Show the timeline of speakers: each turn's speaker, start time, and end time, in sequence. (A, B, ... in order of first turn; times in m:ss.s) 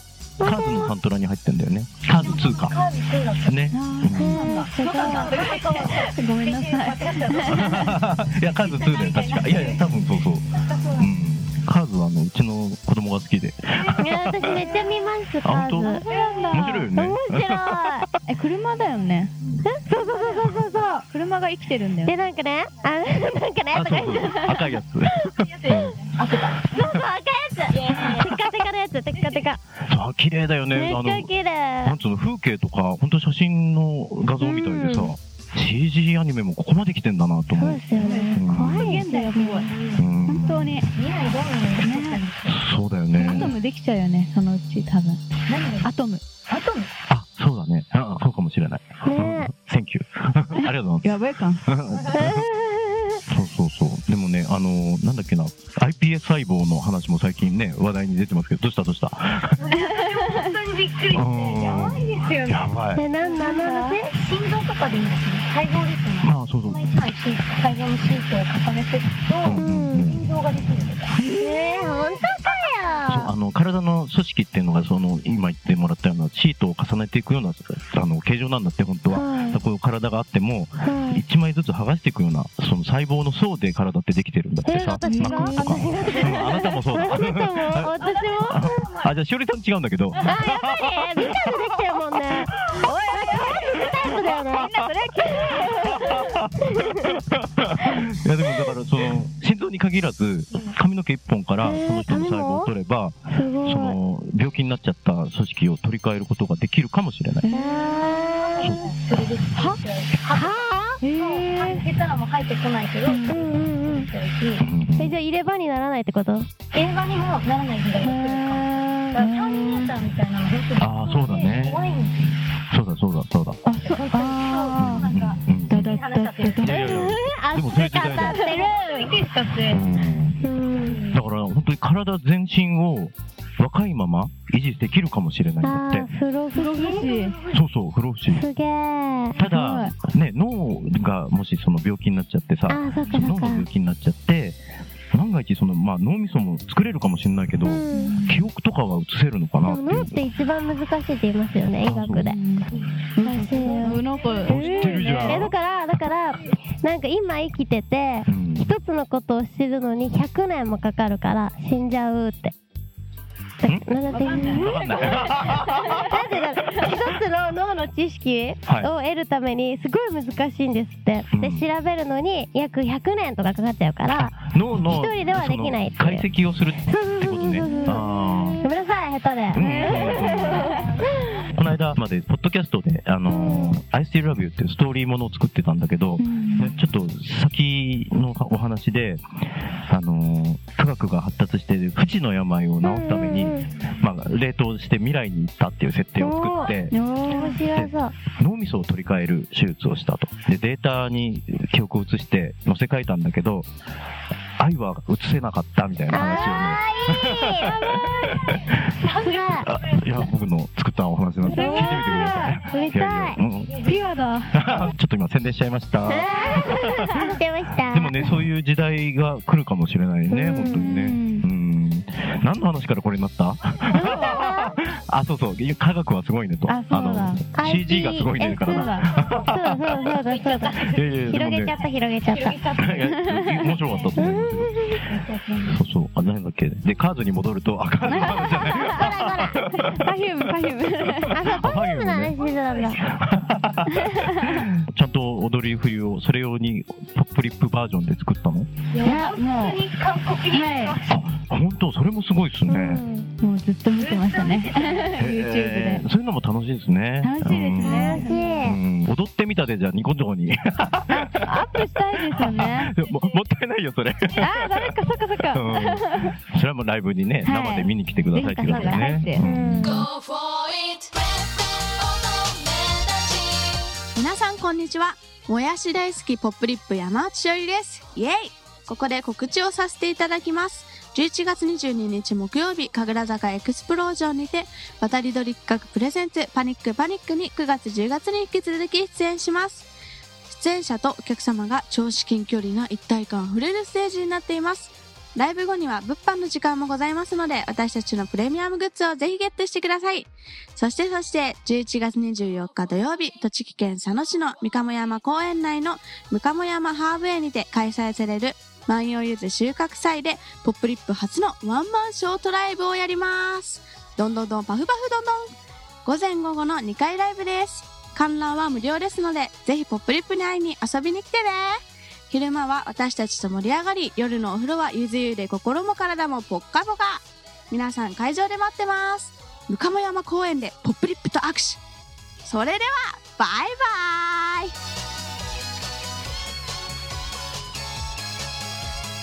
0:00.4-0:00.9 A
0:00.4-0:02.8 B
0:02.1-0:03.7 C
0:03.4-0:04.5 B
0:03.7-0:07.9 D
0:04.1-0:04.6 A
0:04.4-0:11.2 C
0:07.4-0:14.6 B
0:13.9-0:16.1 A
0:14.5-0:15.0 C
0:15.4-0:18.1 B
0:15.8-0:16.9 D
0:16.1-0:16.7 C
0:17.0-0:18.1 A
0:18.2-0:19.4 D
0:19.6-0:21.0 A
0:20.0-0:22.2 D
0:22.0-0:24.8 A
0:23.7-0:26.0 B
0:25.4-0:26.9 C
0:26.6-0:29.6 A
0:27.6-0:28.5 C
0:29.1-0:29.4 C
0:29.9-0:31.3 B
0:30.7-0:32.0 A
0:31.8-0:39.0 B
0:34.4-0:35.2 A
0:37.6-0:39.7 A
0:38.0-0:39.7 D
0:39.0-0:40.0 C
0:40.0-0:40.8 B
0:40.3-0:40.9 D
0:40.9-0:42.7 C
0:41.8-0:42.2 D
0:42.5-0:43.6 B
0:43.2-0:45.2 D
0:43.3-0:43.5 C
0:45.5-0:45.9 C
0:45.8-0:46.2 D
0:46.5-0:46.9 C
0:47.1-0:52.5 B
0:49.0-0:49.5 A
0:50.6-0:51.6 D
0:52.1-0:53.2 A
0:53.3-0:59.6 B
0:59.6-1:11.2 C
1:00.0-1:00.6 D
1:01.1-1:03.0 B
1:03.0-1:04.1 A
1:03.2-1:04.0 D
1:06.2-1:07.0 B
1:09.4-1:10.3 B
1:09.6-1:10.1 A
1:11.2-1:12.2 D
1:11.3-1:13.3 A
1:13.1-1:31.4 B
1:19.1-1:19.6 A
1:20.8-1:21.2 A
1:24.6-1:28.5 A
1:25.0-1:26.4 D
1:28.0-1:29.2 C
1:30.2-1:34.7 A
1:32.9-1:33.4 D
1:34.4-1:36.3 D
1:35.3-1:47.4 B
1:35.4-1:35.9 A
1:36.7-1:37.2 A
1:41.6-1:42.7 A
1:43.3-1:44.0 A
1:47.4-1:48.0 D
1:47.5-1:48.8 A
1:48.2-1:54.7 C
1:49.5-1:49.8 D
1:50.3-1:51.0 A
1:51.0-1:51.8 D
1:53.1-1:53.4 D
1:53.3-1:54.1 A
1:54.6-1:55.2 B
1:55.0-1:56.5 A
1:56.7-2:02.3 C
1:58.0-1:59.6 D
2:00.8-2:01.9 B
2:02.7-2:03.6 B
2:03.6-2:05.1 D
2:03.8-2:06.8 C
2:04.8-2:05.9 B
2:05.7-2:07.0 D
2:06.6-2:08.4 B
2:06.7-2:09.2 A
2:08.4-2:10.0 C
2:09.7-2:10.4 B
2:10.4-2:11.0 A
2:10.8-2:11.2 C
2:11.1-2:16.1 B
2:15.6-2:17.6 A
2:16.5-2:17.4 D
2:17.5-2:18.4 B
2:18.3-2:19.4 A
2:19.4-2:24.6 B
2:19.4-2:20.0 D
2:22.7-2:23.7 A
2:25.1-2:30.2 B
2:27.6-2:28.2 A
2:27.9-2:28.4 D
2:29.6-2:32.4 A
2:31.8-2:32.3 B
2:32.2-2:35.4 D
2:33.2-2:42.5 A
2:33.6-2:35.3 C
2:34.5-2:35.5 B
2:38.3-2:38.7 B
2:43.6-2:45.3 A
2:44.1-2:45.5 C
2:44.5-2:46.0 B
2:46.0-2:56.3 A
2:48.6-2:48.9 B
2:51.3-2:51.7 B
2:54.1-2:58.7 B
2:56.9-3:01.4 A
2:59.5-3:00.8 B
2:59.5-3:00.9 D
3:01.4-3:09.2 B
3:03.3-3:03.8 A
3:06.2-3:06.8 D
3:09.9-3:16.9 B
3:12.8-3:13.7 A
3:16.2-3:16.6 A
3:16.5-3:17.6 D
3:17.3-3:18.2 A
3:17.7-3:23.7 B
3:24.6-3:28.7 B
3:26.1-3:27.8 A
3:28.7-3:30.1 C
3:29.2-3:29.7 A
3:29.7-3:33.8 B
3:31.4-3:33.4 A
3:31.5-3:32.6 D
3:33.7-3:34.1 C
3:33.8-3:34.6 D
3:34.5-3:37.4 B
3:36.1-3:38.3 A
3:36.3-3:36.7 D
3:37.9-3:50.0 B
3:40.3-3:40.9 A
3:40.7-3:41.5 D
3:43.9-3:44.8 A
3:44.0-3:44.2 D
3:46.7-3:47.4 D
3:47.6-3:48.9 A
3:48.4-3:49.1 D
3:49.0-3:54.2 C
3:49.5-3:52.6 A
3:50.9-3:51.7 B
3:52.8-3:54.7 B
3:53.0-3:53.7 D
3:54.2-3:55.0 A
3:54.9-3:55.8 C
3:55.7-4:00.1 B
3:58.0-4:01.4 D
3:58.9-3:59.6 A
4:00.9-4:02.4 B
4:01.3-4:03.0 A
4:02.4-4:03.0 C
4:03.0-4:08.7 B
4:04.0-4:04.7 D
4:08.9-4:11.1 C
4:09.0-4:09.8 D
4:10.5-4:11.0 D
4:11.1-4:13.0 B
4:12.7-4:13.3 A
4:13.4-4:16.1 D
4:14.0-4:15.2 C
4:15.2-4:21.7 B
4:17.2-4:18.4 D
4:17.8-4:18.8 A
4:18.2-4:18.6 C
4:21.1-4:23.0 D
4:22.3-4:25.0 B
4:24.4-4:26.3 D
4:25.5-4:30.1 B
4:27.4-4:29.5 D
4:29.4-4:30.1 A
4:34.2-4:49.9 E
4:50.5-5:15.5 E
5:16.0-5:21.8 E
5:22.3-5:31.8 E
5:32.4-5:34.7 E